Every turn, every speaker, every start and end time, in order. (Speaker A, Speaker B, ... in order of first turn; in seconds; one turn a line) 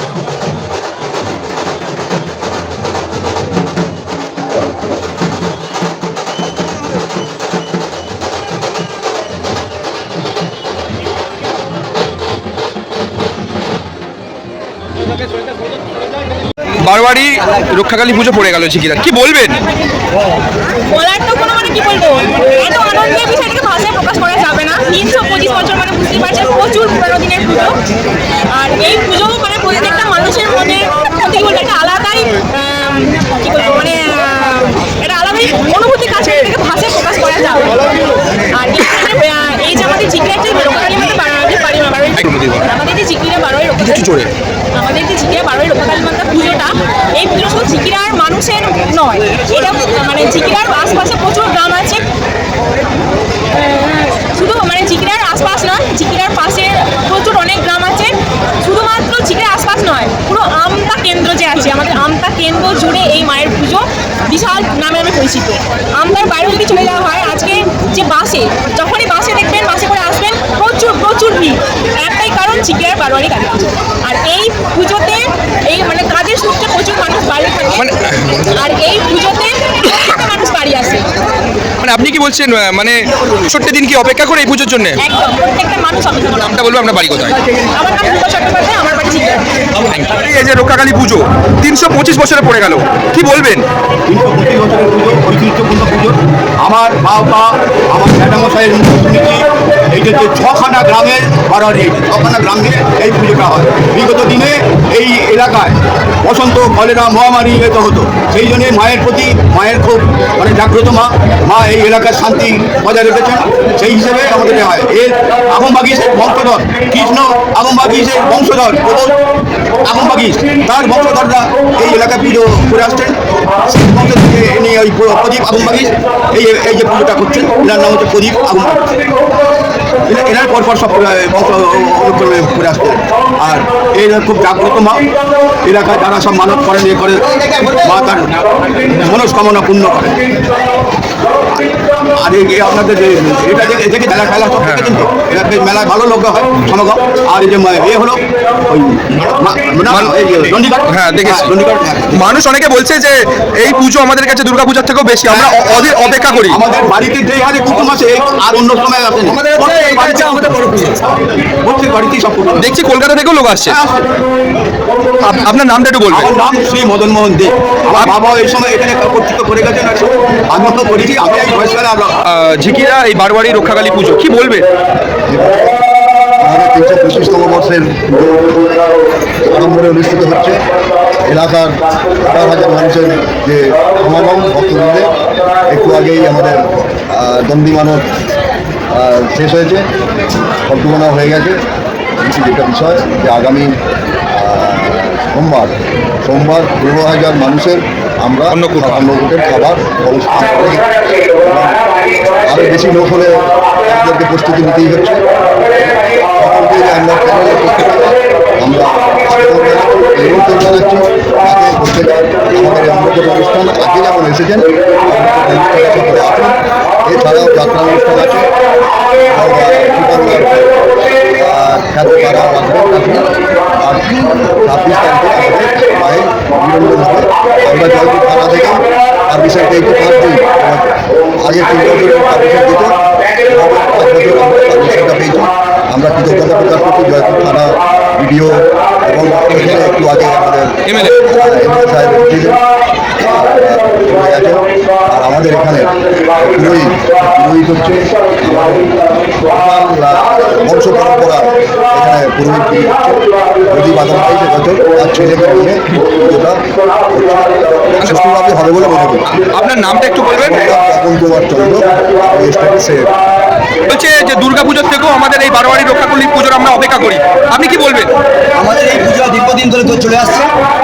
Speaker A: 16.8-19.6
Speaker B: 20.8-27.8
Speaker B: 28.5-52.1
Speaker A: 42.2-42.7
Speaker A: 43.8-44.3
Speaker B: 53.5-77.9
Speaker A: 77.8-78.5
Speaker B: 78.5-81.0
Speaker A: 81.8-85.0
Speaker B: 85.0-86.6
Speaker A: 86.4-87.4
Speaker B: 87.5-89.5
Speaker A: 89.8-93.7
Speaker C: 94.1-119.2
Speaker C: 119.8-128.9
Speaker C: 130.1-135.1
Speaker C: 135.6-140.2
Speaker D: 137.4-137.8
Speaker C: 142.2-152.3
Speaker A: 144.6-145.0
Speaker A: 149.9-150.2
Speaker A: 150.9-151.5
Speaker A: 152.1-156.6
Speaker C: 155.3-155.6
Speaker C: 156.5-162.7
Speaker D: 159.3-161.0
Speaker A: 162.6-163.8
Speaker C: 163.7-164.1
Speaker A: 165.2-166.3
Speaker C: 166.1-172.2
Speaker A: 172.2-174.7
Speaker E: 175.3-175.7
Speaker E: 176.4-178.6
Speaker E: 179.5-180.6
Speaker E: 181.2-185.1
Speaker E: 185.7-188.1
Speaker E: 188.9-189.9
Speaker E: 190.7-191.6
Speaker E: 192.2-193.8
Speaker E: 194.3-201.9
Speaker A: 198.5-199.1
Speaker E: 202.4-218.5
Speaker E: 219.2-242.6
Speaker A: 240.8-241.2
Speaker E: 243.2-259.3
Speaker A: 259.4-260.6
Speaker E: 260.3-263.1
Speaker A: 263.9-268.1
Speaker D: 268.6-270.5